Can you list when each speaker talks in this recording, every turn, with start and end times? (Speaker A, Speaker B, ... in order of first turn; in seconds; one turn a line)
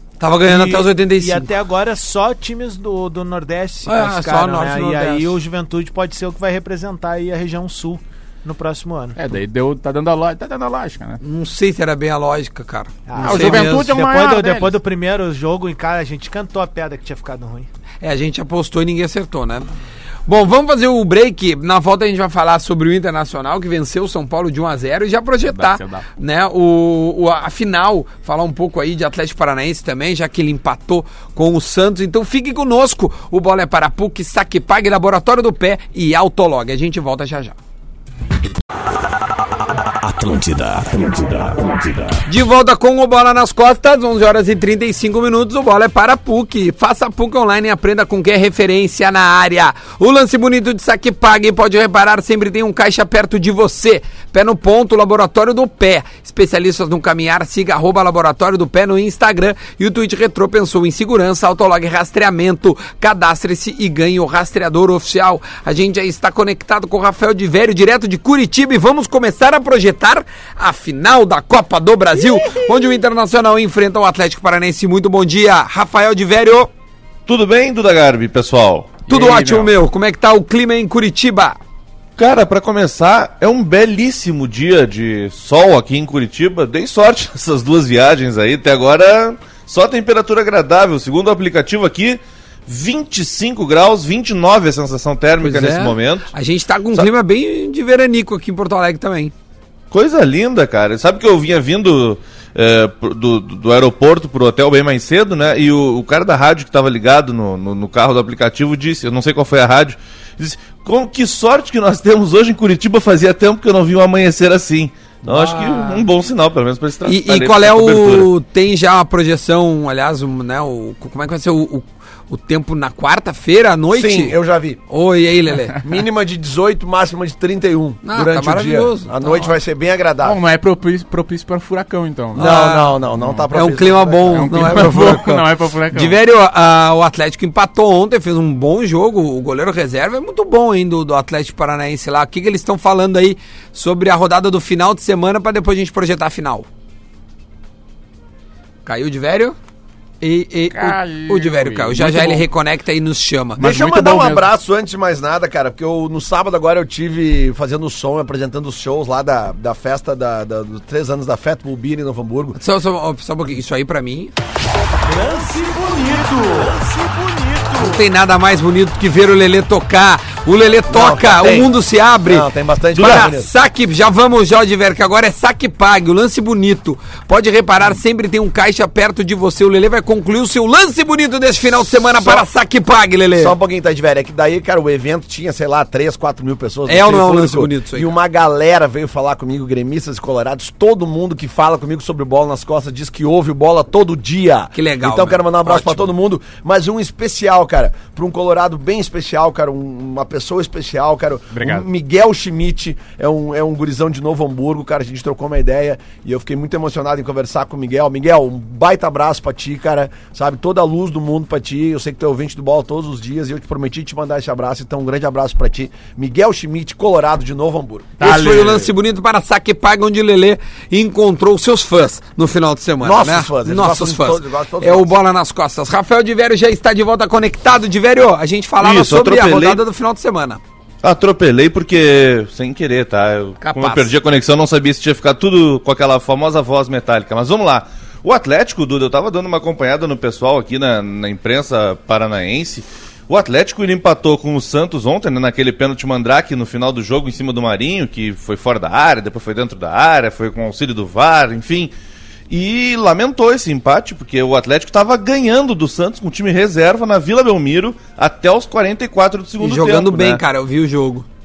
Speaker A: 0.2-1.5
Speaker B: 0.5-9.2
Speaker A: 3.9-5.4
Speaker C: 9.2-11.2
Speaker A: 11.2-13.9
Speaker B: 13.1-17.7
Speaker C: 13.2-14.8
Speaker A: 18.0-19.7
Speaker A: 20.3-37.5
Speaker C: 25.5-26.0
Speaker D: 39.8-42.2
Speaker A: 42.3-76.7
Speaker E: 77.3-79.0
Speaker C: 79.1-79.7
Speaker A: 79.1-81.6
Speaker E: 82.2-96.3
Speaker A: 95.4-99.3
Speaker E: 99.9-118.3
Speaker A: 115.2-116.1
Speaker A: 117.0-124.4
Speaker F: 123.9-124.8
Speaker A: 124.9-125.8
Speaker F: 125.8-130.4
Speaker A: 128.0-129.5
Speaker C: 130.2-132.6
Speaker F: 132.3-135.1
Speaker A: 132.3-133.0
Speaker C: 133.1-133.5
Speaker A: 133.5-146.7
Speaker C: 134.3-136.2
Speaker A: 148.9-149.6
Speaker A: 150.2-153.6
Speaker C: 150.7-152.5
Speaker C: 153.6-154.5
Speaker F: 153.6-162.6
Speaker A: 162.6-164.3
Speaker B: 165.1-168.0
Speaker A: 167.8-183.6
Speaker F: 170.9-171.7
Speaker F: 172.3-173.5
Speaker F: 182.2-182.4
Speaker F: 183.4-218.2
Speaker A: 186.9-188.1
Speaker A: 194.8-196.1
Speaker C: 201.5-201.9
Speaker C: 218.2-218.9
Speaker A: 218.2-230.6
Speaker F: 223.0-225.1
Speaker E: 228.8-229.8
Speaker E: 231.0-251.9
Speaker A: 233.6-234.1
Speaker E: 252.5-260.4
Speaker A: 259.6-261.3